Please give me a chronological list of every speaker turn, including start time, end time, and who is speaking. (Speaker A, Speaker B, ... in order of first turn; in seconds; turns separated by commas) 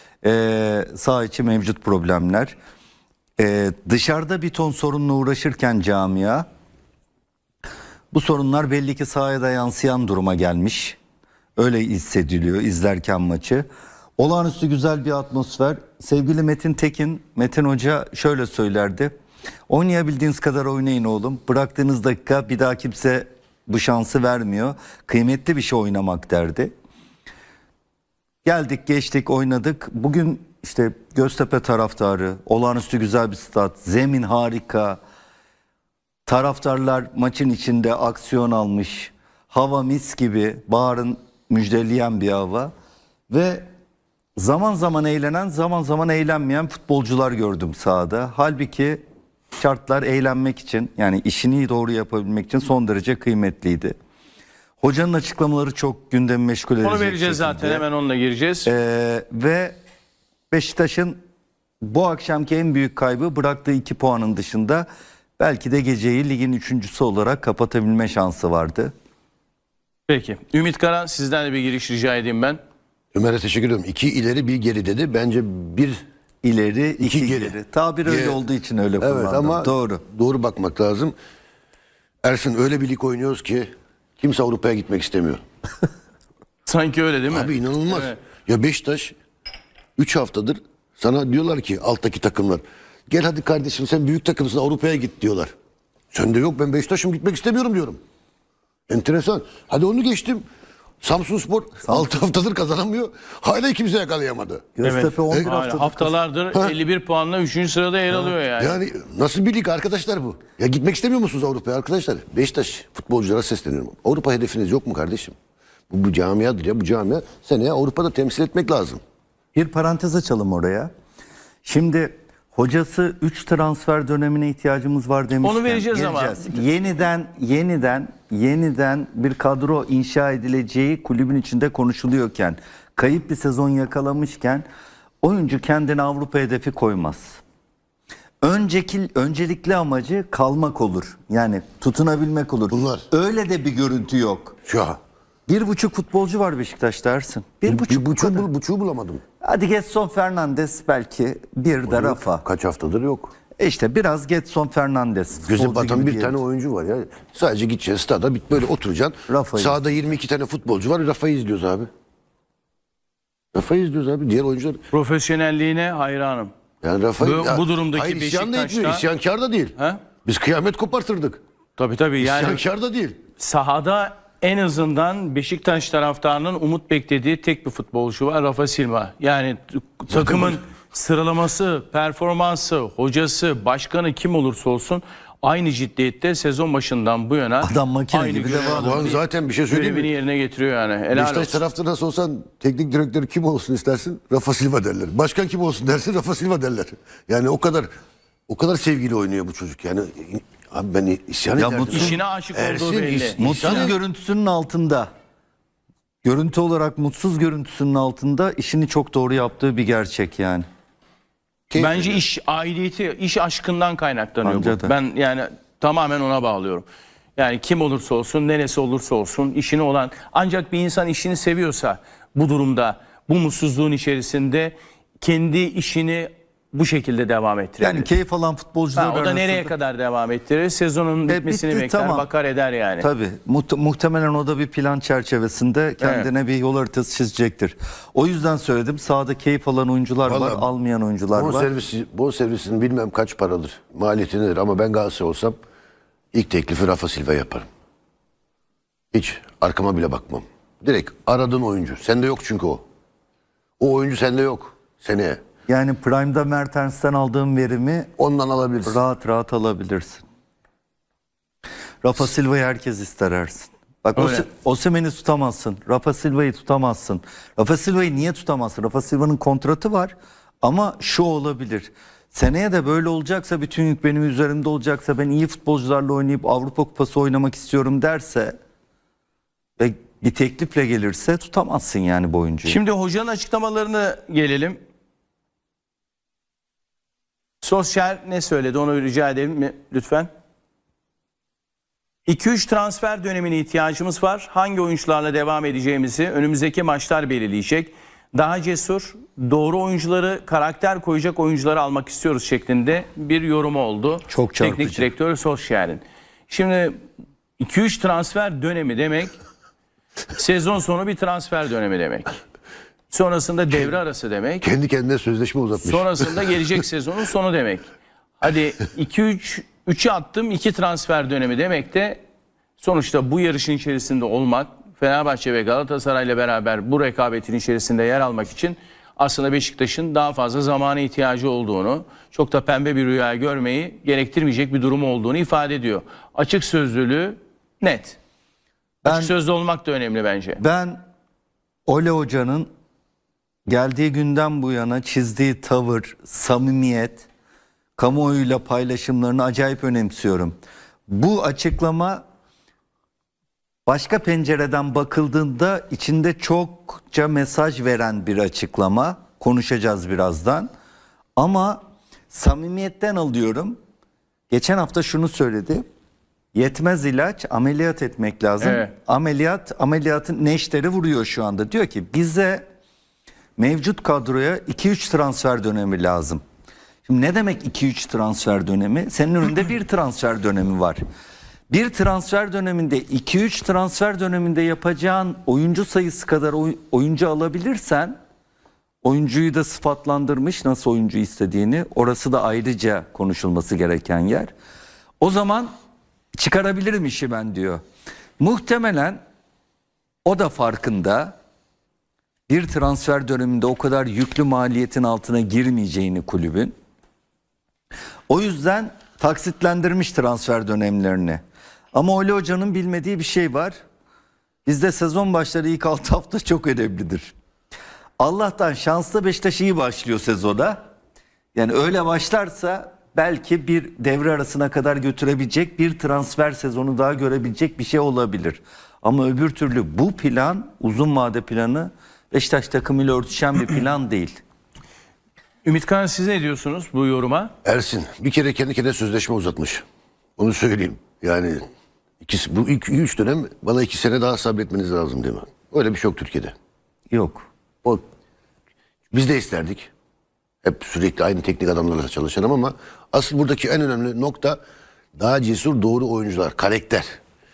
Speaker A: 0.2-2.5, Speaker A: 3.4-6.5, Speaker A: 8.1-11.0, Speaker A: 11.6-13.7, Speaker A: 14.2-19.1, Speaker A: 19.7-26.7, Speaker A: 28.4-35.0, Speaker A: 36.2-42.7, Speaker A: 43.3-43.6, Speaker A: 44.4-49.0, Speaker A: 49.5-53.9, Speaker A: 54.8-57.8, Speaker B: 56.8-58.7, Speaker A: 58.6-59.8, Speaker A: 60.5-61.2, Speaker A: 61.8-64.9, Speaker A: 65.4-68.9, Speaker B: 70.1-72.6, Speaker C: 73.1-76.0, Speaker A: 76.4-80.0, Speaker C: 77.0-78.4, Speaker C: 79.0-81.1, Speaker C: 82.2-85.4, Speaker B: 86.7-88.2, Speaker C: 87.3-89.1, Speaker C: 90.0-95.5, Speaker C: 96.1-98.0, Speaker C: 98.9-100.4, Speaker C: 101.0-104.7, Speaker A: 101.8-102.2, Speaker A: 104.8-106.1, Speaker B: 104.8-108.8, Speaker C: 106.5-106.8, Speaker C: 108.5-115.3, Speaker C: 115.9-119.0, Speaker A: 119.5-120.9, Speaker A: 121.6-134.7, Speaker B: 125.4-126.7, Speaker A: 135.2-137.4, Speaker A: 138.4-144.6, Speaker C: 142.7-143.1, Speaker C: 144.7-145.0, Speaker A: 145.5-148.5, Speaker C: 147.7-149.2, Speaker A: 149.4-152.4, Speaker C: 151.9-153.3, Speaker A: 153.6-156.4, Speaker C: 155.4-161.9, Speaker A: 159.3-159.8, Speaker C: 163.5-164.8, Speaker B: 164.9-166.5, Speaker C: 166.8-171.4, Speaker B: 167.2-169.0, Speaker B: 169.8-170.0, Speaker B: 171.8-172.6, Speaker C: 172.2-173.2, Speaker B: 173.4-191.6, Speaker C: 180.1-180.6, Speaker A: 187.6-189.1, Speaker C: 188.6-190.1, Speaker C: 191.1-197.9, Speaker C: 198.5-203.9, Speaker A: 201.6-202.2, Speaker B: 201.9-203.9, Speaker A: 203.4-205.1, Speaker A: 206.2-210.6, Speaker C: 211.7-212.2, Speaker B: 211.7-216.8, Speaker A: 214.4-214.9, Speaker B: 217.4-228.1, Speaker A: 227.8-229.7, Speaker B: 228.9-233.1, Speaker A: 231.3-232.2, Speaker A: 233.0-241.7, Speaker B: 236.0-236.3, Speaker C: 240.2-240.7, Speaker C: 241.3-245.6, Speaker C: 246.3-247.7, Speaker C: 249.1-252.8, Speaker C: 253.8-255.4, Speaker A: 255.7-258.1, Speaker C: 258.2-259.0, Speaker A: 258.9-260.2, Speaker A: 262.0-278.6, Speaker B: 264.1-264.4, Speaker A: 279.8-282.8, Speaker B: 282.6-284.8, Speaker B: 287.6-290.3, Speaker B: 292.3-306.9, Speaker A: 304.3-305.1, Speaker B: 307.6-309.3, Speaker B: 310.3-312.3, Speaker B: 313.1-314.7, Speaker C: 314.6-316.8, Speaker B: 315.8-317.9, Speaker B: 318.4-322.2, Speaker B: 322.8-338.2, Speaker B: 339.0-340.6, Speaker A: 339.0-339.3, Speaker A: 340.6-341.0, Speaker A: 341.9-342.7, Speaker A: 343.7-347.2, Speaker A: 348.0-350.5, Speaker A: 351.1-352.2, Speaker A: 353.9-360.7, Speaker A: 361.4-363.8, Speaker A: 364.5-365.8, Speaker A: 366.5-372.6, Speaker B: 368.6-368.9, Speaker A: 373.6-376.4, Speaker A: 377.1-381.0, Speaker A: 381.7-388.2, Speaker A: 389.0-394.5, Speaker A: 395.2-395.7, Speaker A: 396.3-397.8, Speaker A: 398.4-399.2, Speaker A: 400.2-401.3, Speaker A: 402.5-406.7, Speaker A: 408.3-411.4, Speaker A: 411.9-413.7, Speaker A: 414.6-417.3, Speaker A: 418.2-420.8, Speaker A: 421.5-434.4, Speaker B: 435.6-437.5, Speaker C: 437.6-439.8, Speaker C: 440.4-441.6, Speaker C: 442.2-446.5, Speaker A: 447.1-447.5, Speaker C: 449.1-449.9, Speaker C: 450.6-454.6, Speaker C: 455.2-457.2